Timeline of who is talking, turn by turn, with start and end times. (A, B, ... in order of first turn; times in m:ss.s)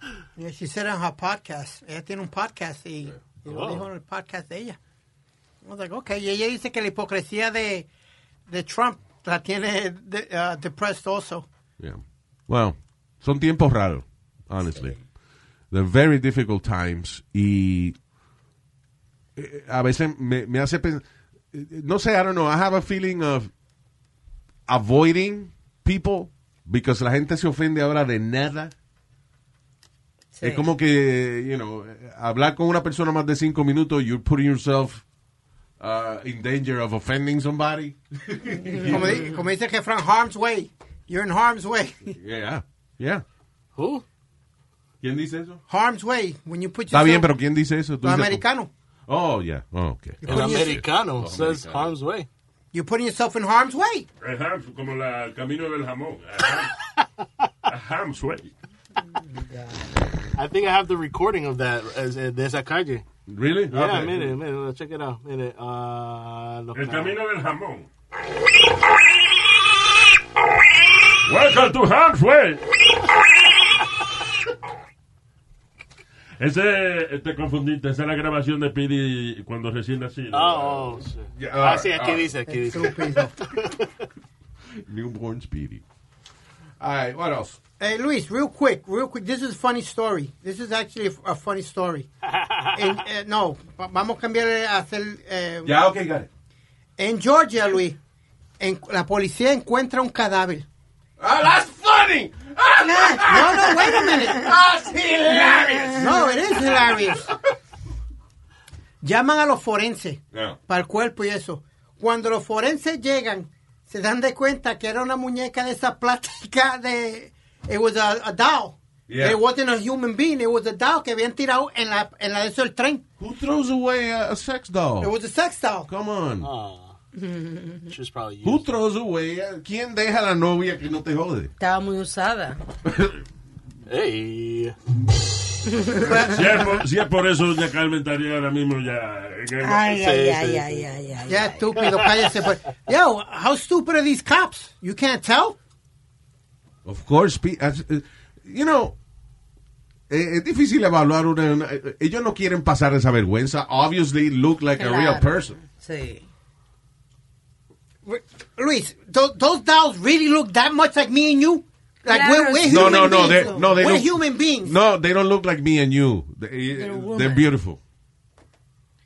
0:00.4-0:04.8 A
0:03.5-0:03.8 B
0:05.6-0:07.9 A
0:08.5-0:11.5 A
0:11.8-0:15.0 C
0:15.7-0:18.0 C
0:19.4-0:23.5 C
0:24.7-0:28.7 C
0:30.3-0:30.7 D
0:30.4-0:35.0 C
0:35.8-0:39.2 C
0:38.6-0:39.3 D
0:38.8-0:42.1 A
0:42.2-0:43.2 C
0:43.8-0:44.0 B
0:45.0-0:45.6 C
0:45.7-0:47.3 A
0:46.9-0:48.4 C
0:48.0-0:48.7 A
0:49.1-0:51.9 C
0:50.2-0:50.8 A
0:50.2-0:52.3 B
0:52.7-0:54.1 A
0:54.2-0:56.7 E
0:57.7-0:58.5 E
0:59.4-0:59.8 D
1:00.4-1:03.0 B
1:03.3-1:04.3 C
1:03.7-1:07.2 B
1:06.7-1:07.9 E
1:11.2-1:12.6 E
1:16.4-1:21.0 E
1:20.3-1:23.9 B
1:21.4-1:22.3 C
1:22.5-1:23.3 A
1:24.8-1:25.8 C
1:26.8-1:27.6 C
1:27.8-1:32.1 A
1:32.3-1:32.7 B
1:32.7-1:35.7 A
1:35.6-1:36.3 C
1:37.0-1:38.0 A
1:38.6-1:40.6 A
1:41.2-1:46.8 C
1:42.8-1:44.5 D
1:43.2-1:44.5 A
1:45.5-1:46.3 D
1:45.9-1:47.3 A
1:49.0-2:03.0 A
1:50.3-1:50.6 C
1:59.1-1:59.4 C
2:03.2-2:05.1 C
2:05.0-2:05.9 A
2:05.9-2:06.5 C
2:06.4-2:07.0 B
2:07.1-2:07.9 D
2:07.9-2:08.7 B
2:08.4-2:11.5 C
2:11.6-2:12.6 D
2:12.8-2:13.1 C
2:13.9-2:14.8 B
2:15.7-2:16.2 D
2:16.1-2:16.5 A
2:16.2-2:19.9 E
2:19.6-2:21.7 D
2:19.8-2:20.9 B
2:21.3-2:25.6 A
2:26.8-2:28.9 C
2:30.1-2:35.6 C
2:34.8-2:36.2 D
2:38.0-2:44.8 A
2:42.1-2:43.6 D
2:42.6-2:47.8 C
2:46.7-2:47.5 D